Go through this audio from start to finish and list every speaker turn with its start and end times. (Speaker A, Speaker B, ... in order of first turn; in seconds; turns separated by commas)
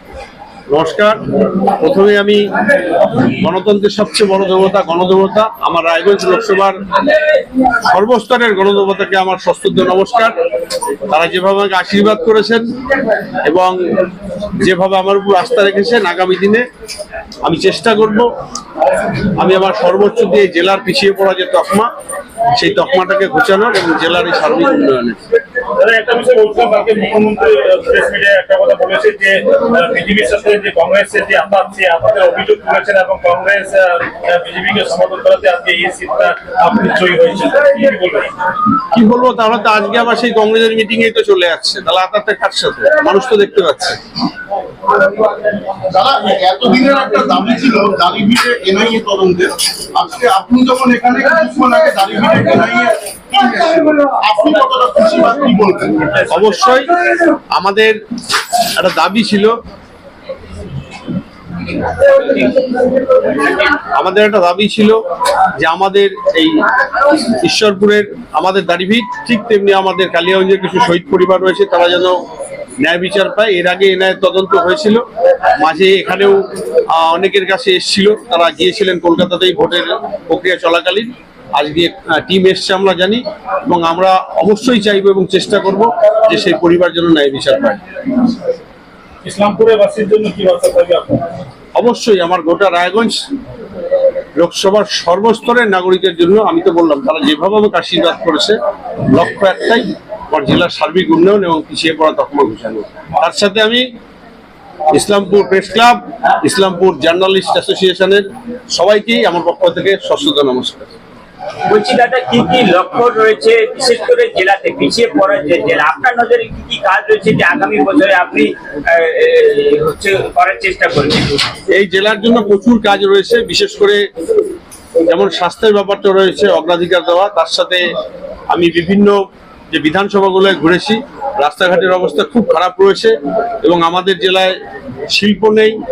Speaker A: 0.7-1.2, Speaker A: 1.8-2.4, Speaker A: 3.1-6.8, Speaker A: 7.8-10.4, Speaker A: 11.1-12.6, Speaker A: 13.4-13.8, Speaker A: 14.6-16.6, Speaker A: 17.4-18.3, Speaker A: 19.3-21.9, Speaker A: 22.5-25.2, Speaker B: 25.7-38.3, Speaker A: 38.9-44.0, Speaker C: 45.8-56.4, Speaker A: 56.3-56.9, Speaker A: 57.5-58.0, Speaker A: 58.7-59.5, Speaker A: 63.7-65.0, Speaker A: 65.5-72.2, Speaker A: 72.8-75.0, Speaker A: 75.6-87.8, Speaker B: 89.2-91.3, Speaker A: 91.8-93.2, Speaker A: 94.3-103.8, Speaker A: 104.9-110.9, Speaker D: 111.6-121.4, Speaker A: 121.7-124.0, Speaker A: 125.1-127.8, Speaker A: 128.5-129.2, Speaker A: 129.7-134.5, Speaker A: 135.1-135.8